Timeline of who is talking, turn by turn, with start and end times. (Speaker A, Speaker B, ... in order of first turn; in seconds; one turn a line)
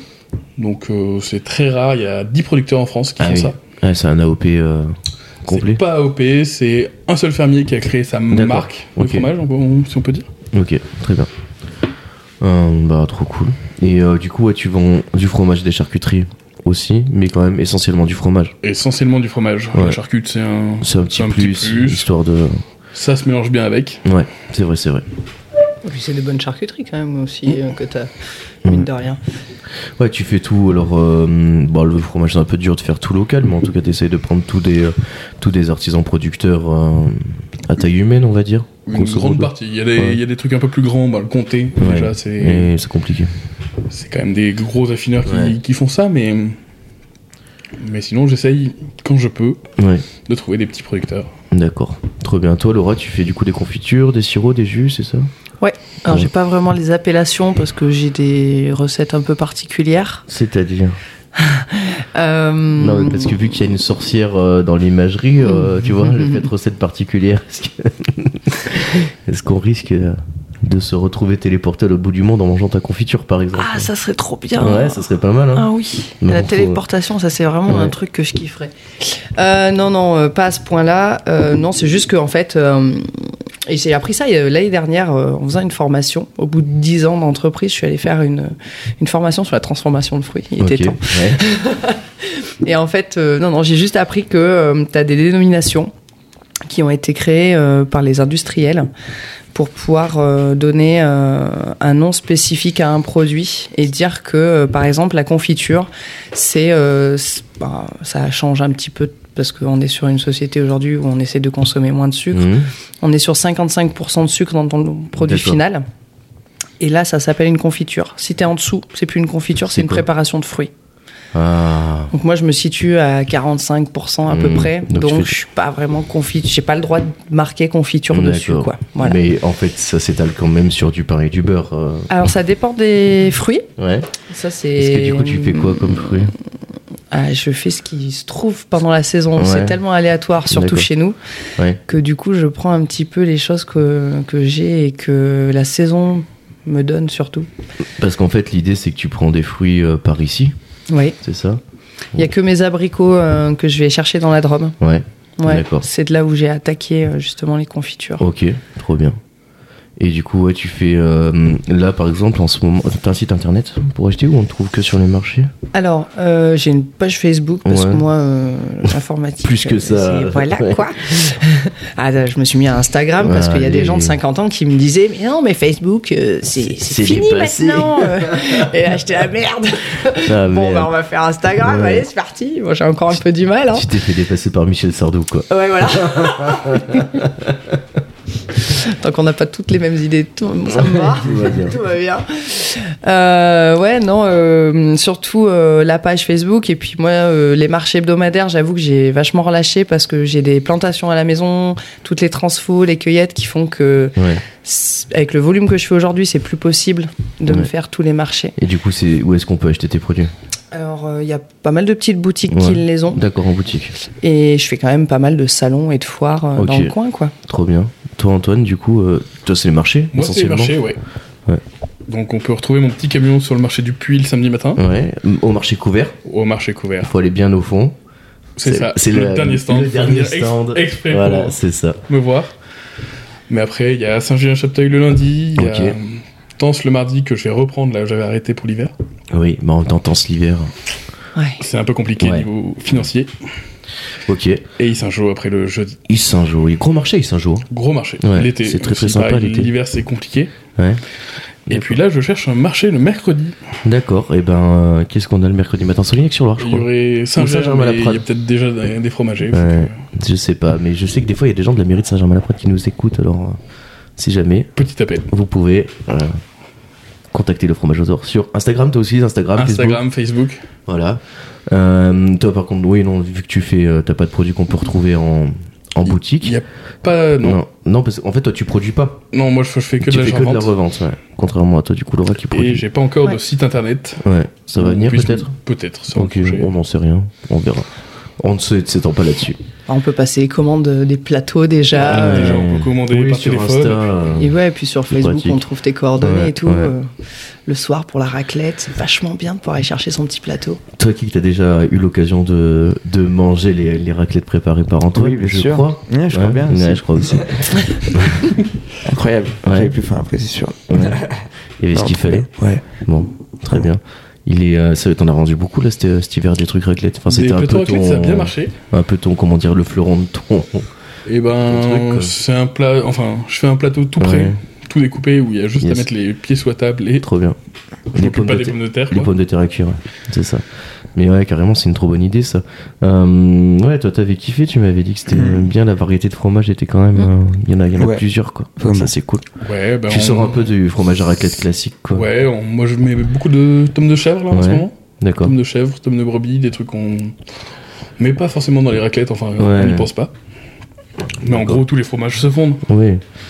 Speaker A: 0.6-3.5
Speaker B: 3.2-5.8
Speaker A: 5.5-10.3
Speaker B: 8.3-9.3
Speaker B: 10.5-11.3
Speaker B: 12.4-18.5
Speaker A: 18.6-22.1
Speaker B: 19.7-20.0
Speaker B: 20.8-22.6
Speaker A: 22.9-24.0
Speaker B: 24.0-25.0
Speaker C: 25.8-28.1
Speaker C: 28.6-29.2
Speaker B: 29.9-40.2
Speaker A: 38.9-42.7
Speaker B: 41.8-43.3
Speaker A: 43.9-46.6
Speaker B: 45.2-45.6
Speaker A: 47.8-49.6
Speaker B: 49.8-50.0
Speaker A: 50.2-51.3
Speaker B: 51.5-55.3
Speaker C: 55.6-60.2
Speaker B: 60.3-61.0
Speaker C: 61.4-63.4
Speaker B: 62.8-73.9
Speaker C: 65.5-66.5
Speaker C: 73.5-95.9
Speaker B: 74.6-76.8
Speaker B: 77.7-77.9
Speaker B: 90.6-91.4
Speaker C: 96.7-98.9
Speaker C: 99.5-115.8
Speaker B: 112.3-112.7
Speaker B: 115.2-115.6
Speaker C: 116.8-120.7
Speaker B: 119.7-120.0
Speaker B: 121.3-122.1
Speaker C: 122.1-129.2
Speaker B: 124.3-125.3
Speaker B: 128.1-132.1
Speaker C: 132.1-133.7
Speaker B: 133.8-134.1
Speaker C: 134.2-136.3
Speaker B: 134.8-136.3
Speaker C: 137.1-141.2
Speaker B: 139.3-139.8
Speaker B: 140.5-140.9
Speaker C: 141.9-147.5
Speaker B: 148.0-150.5
Speaker C: 150.9-151.2
Speaker B: 151.2-151.6
Speaker C: 152.1-154.8
Speaker B: 154.8-155.8
Speaker C: 155.4-158.2
Speaker B: 158.2-159.2
Speaker B: 160.0-165.5
Speaker C: 165.7-183.9
Speaker B: 167.6-168.0
Speaker B: 169.4-171.4
Speaker B: 173.2-174.2
Speaker B: 176.8-178.7
Speaker B: 180.2-180.9
Speaker B: 181.6-182.1
Speaker B: 183.7-187.6
Speaker C: 185.5-187.2
Speaker C: 188.6-208.5
Speaker B: 190.7-191.8
Speaker B: 204.2-204.4
Speaker B: 208.6-210.3
Speaker C: 210.7-213.2
Speaker B: 212.5-213.9
Speaker C: 214.1-217.3
Speaker B: 216.6-220.8
Speaker A: 220.1-221.0
Speaker A: 222.1-224.8
Speaker B: 224.8-226.2
Speaker A: 226.2-227.1
Speaker B: 227.0-227.9
Speaker A: 228.6-231.6
Speaker B: 228.6-232.0
Speaker A: 232.1-232.5
Speaker A: 233.5-238.9
Speaker B: 235.6-235.9
Speaker B: 239.3-240.7
Speaker A: 241.6-243.3
Speaker B: 242.2-242.5
Speaker B: 244.3-244.6
Speaker A: 244.8-246.0
Speaker B: 246.1-247.6
Speaker A: 247.7-250.5
Speaker B: 248.2-249.7
Speaker B: 250.8-251.0
Speaker B: 251.7-252.0
Speaker A: 251.7-253.6
Speaker B: 253.8-258.2
Speaker A: 256.6-260.0
Speaker B: 259.5-263.6
Speaker B: 264.2-264.7
Speaker A: 264.8-265.3
Speaker B: 265.3-266.4
Speaker B: 267.3-270.0
Speaker A: 269.6-270.6
Speaker B: 270.9-276.6
Speaker A: 276.0-277.6
Speaker B: 277.4-279.2
Speaker A: 279.3-280.7
Speaker B: 280.0-282.8
Speaker A: 282.5-286.7
Speaker B: 284.2-285.5
Speaker B: 286.1-287.9
Speaker B: 288.4-289.6
Speaker C: 289.9-292.7
Speaker B: 291.9-294.5
Speaker A: 292.0-294.1
Speaker C: 294.4-297.1
Speaker B: 295.1-295.6
Speaker B: 296.2-296.9
Speaker C: 297.6-300.8
Speaker B: 300.9-308.5
Speaker D: 305.1-308.3
Speaker D: 309.0-312.8
Speaker B: 309.6-309.9
Speaker B: 310.9-311.2
Speaker B: 311.8-320.9
Speaker A: 317.3-318.7
Speaker A: 321.2-327.2
Speaker B: 321.7-322.3
Speaker B: 324.2-324.6
Speaker B: 325.8-326.1
Speaker B: 327.2-327.6
Speaker B: 328.1-339.4
Speaker A: 328.1-329.3
Speaker D: 335.3-335.7
Speaker D: 338.0-338.2
Speaker D: 338.8-339.1
Speaker A: 339.6-340.7
Speaker B: 340.1-342.3
Speaker A: 342.1-347.4
Speaker B: 344.5-345.5
Speaker A: 348.2-350.3
Speaker B: 349.6-350.1
Speaker B: 351.4-351.8
Speaker A: 351.4-352.8
Speaker B: 352.9-353.2